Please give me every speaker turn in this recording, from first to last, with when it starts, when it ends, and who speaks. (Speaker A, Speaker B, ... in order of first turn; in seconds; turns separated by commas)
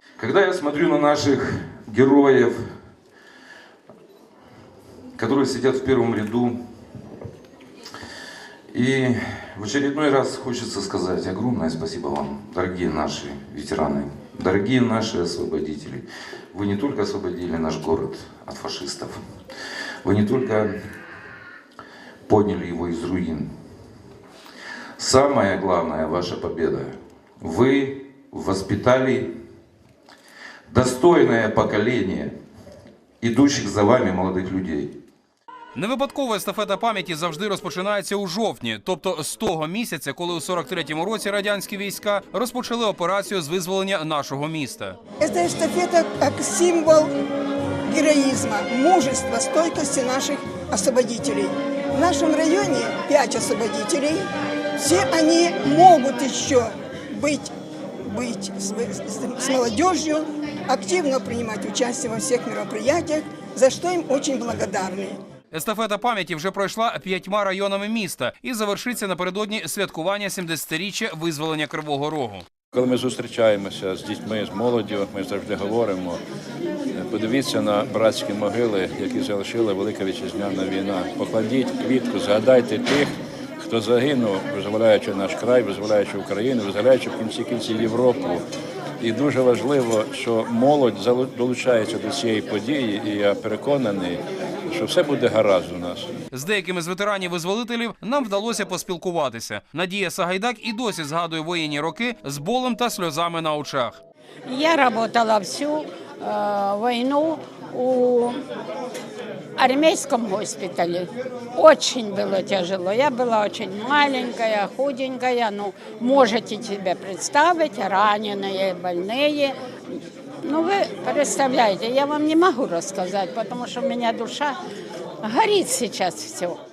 Speaker A: 0.2-2.6, Speaker A: 5.1-6.6, Speaker A: 8.7-19.2, Speaker A: 20.0-20.7, Speaker A: 22.3-23.5, Speaker A: 25.0-29.3, Speaker A: 30.7-32.3, Speaker A: 33.2-34.9, Speaker B: 35.7-45.0, Speaker C: 45.2-47.1, Speaker C: 47.9-54.2, Speaker C: 54.8-57.5, Speaker C: 58.0-65.2, Speaker B: 65.5-72.5, Speaker D: 72.7-76.2, Speaker D: 76.9-88.4, Speaker D: 89.0-96.1, Speaker B: 96.3-104.0, Speaker E: 104.5-108.4, Speaker E: 109.6-124.6, Speaker E: 125.2-126.6